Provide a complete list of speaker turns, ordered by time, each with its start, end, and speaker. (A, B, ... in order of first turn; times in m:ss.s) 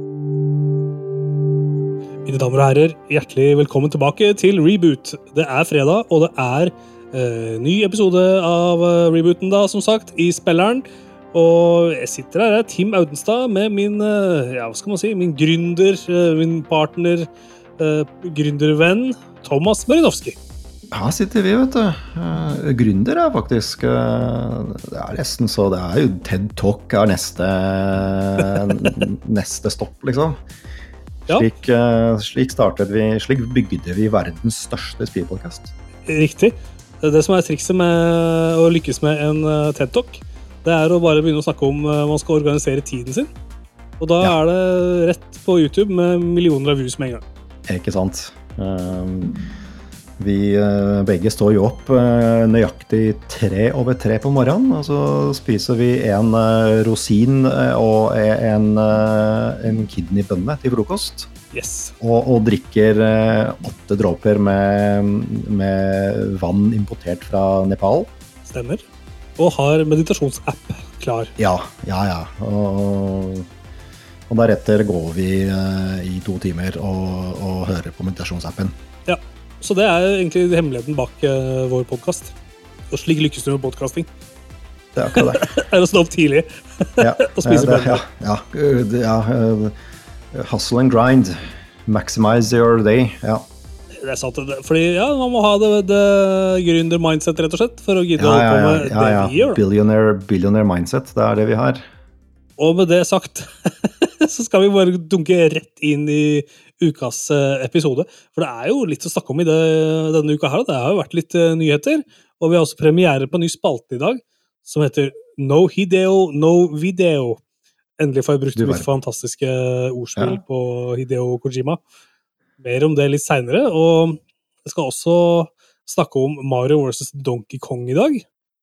0:02.2-0:20.4 A
0:20.9-0:30.4 B
0:31.3-0:35.7 B
0:36.1-0:43.3 A
0:44.0-0:47.2 A
0:47.7-0:49.4 B
0:50.2-1:01.3 B
1:01.5-1:01.9 A
1:02.0-1:08.1 B
1:08.4-1:08.8 A
1:09.4-1:11.3 A
1:11.4-1:13.5 B
1:14.3-1:18.8 B
1:19.1-1:22.3 A
1:22.9-1:24.1 A
1:24.9-1:25.5 B
1:25.1-1:28.0 A
1:27.0-1:29.7 B
1:30.3-1:33.5 B
1:34.0-1:39.6 A
1:38.2-1:41.8 B
1:42.6-1:57.4 A
1:58.0-2:01.8 A
1:58.5-1:58.9 B
2:02.6-2:08.2 A